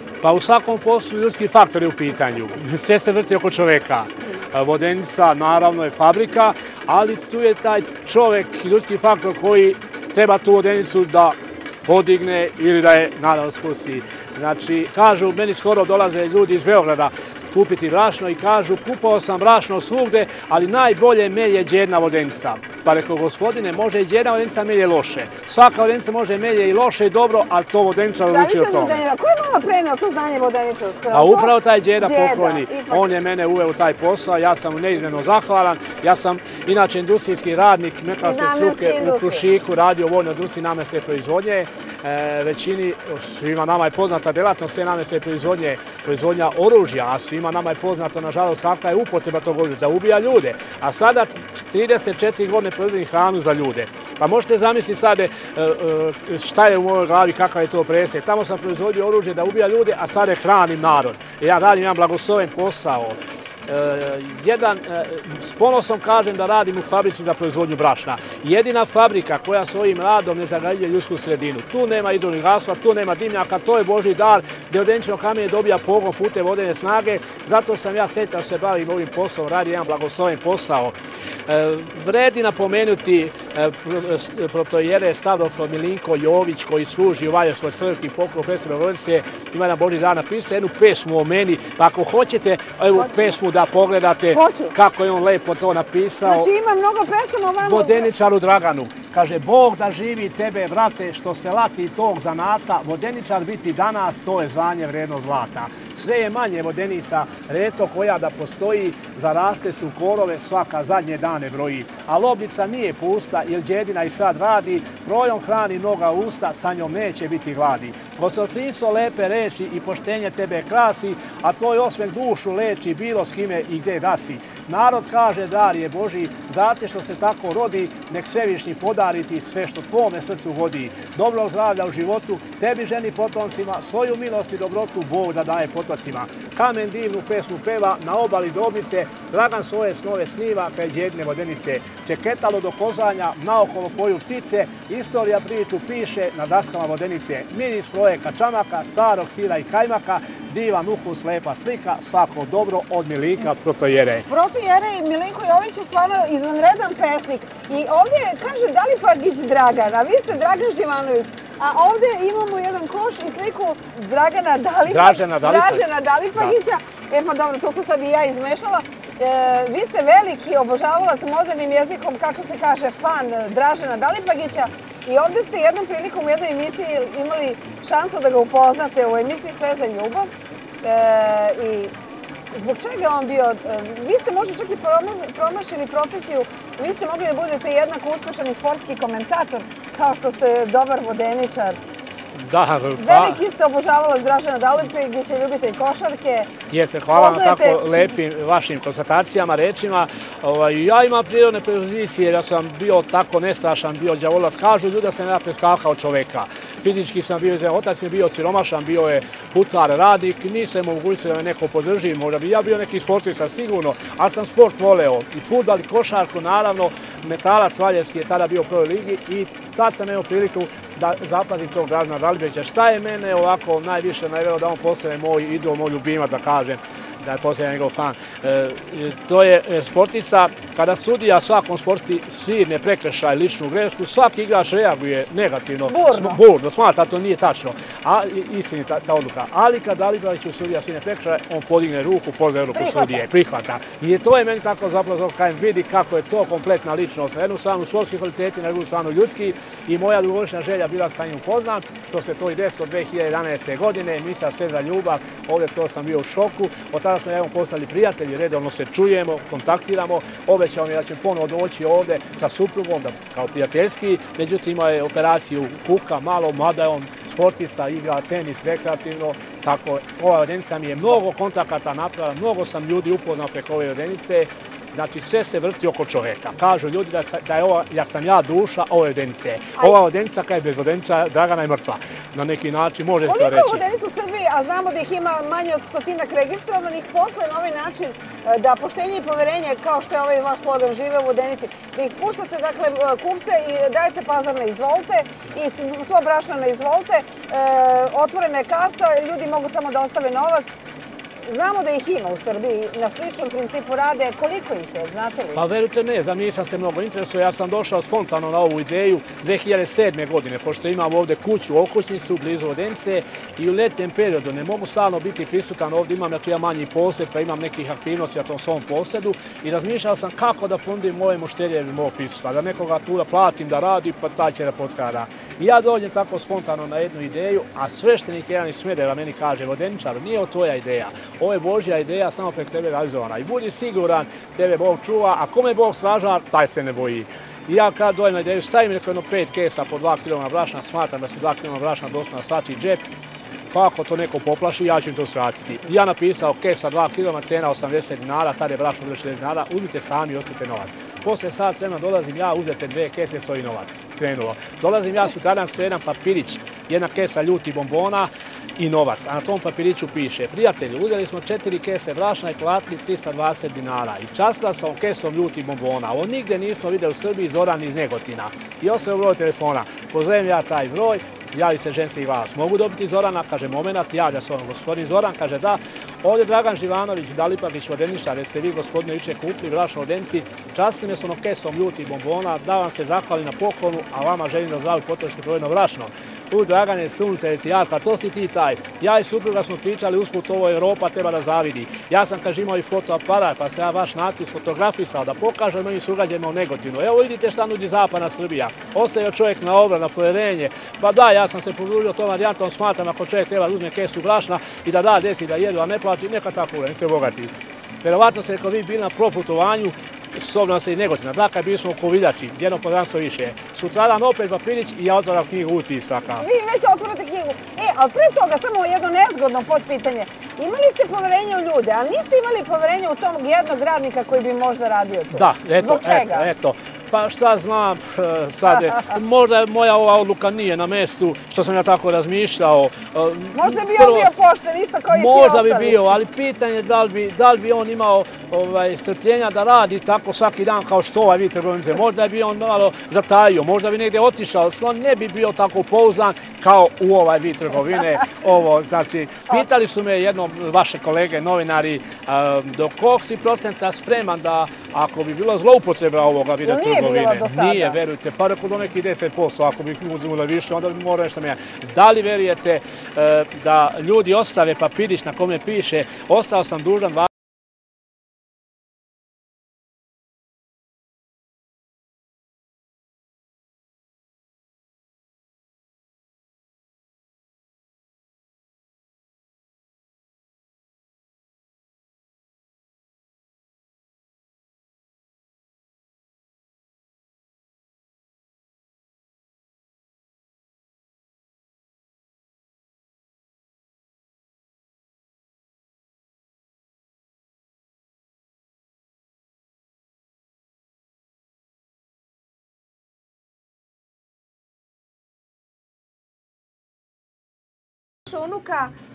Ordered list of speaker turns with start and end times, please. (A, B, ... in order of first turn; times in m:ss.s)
0:00.2-0:29.0 A
0:28.3-0:33.1 B
0:31.1-1:21.0 A
0:38.2-0:39.4 B
1:21.5-1:36.5 A
1:32.9-1:33.4 B
1:34.3-1:34.7 B
1:36.2-1:38.1 B
1:37.6-2:34.2 A
2:34.3-3:01.9 B
2:44.9-2:45.8 A
3:02.5-3:11.8 B
3:12.3-3:13.4 A
3:13.0-3:16.5 B
3:16.7-4:43.8 A
3:17.1-3:18.1 B
3:55.9-3:56.4 B
4:02.7-4:03.2 B
4:43.2-5:00.8 B
5:01.4-5:05.6 B
5:05.5-5:43.0 A
5:43.7-6:47.5 A
6:48.0-6:56.4 A
6:56.4-7:06.5 B
7:05.3-7:14.3 A
7:13.5-7:16.0 B
7:15.1-7:47.3 A
7:36.6-7:38.0 B
8:28.3-8:28.9 B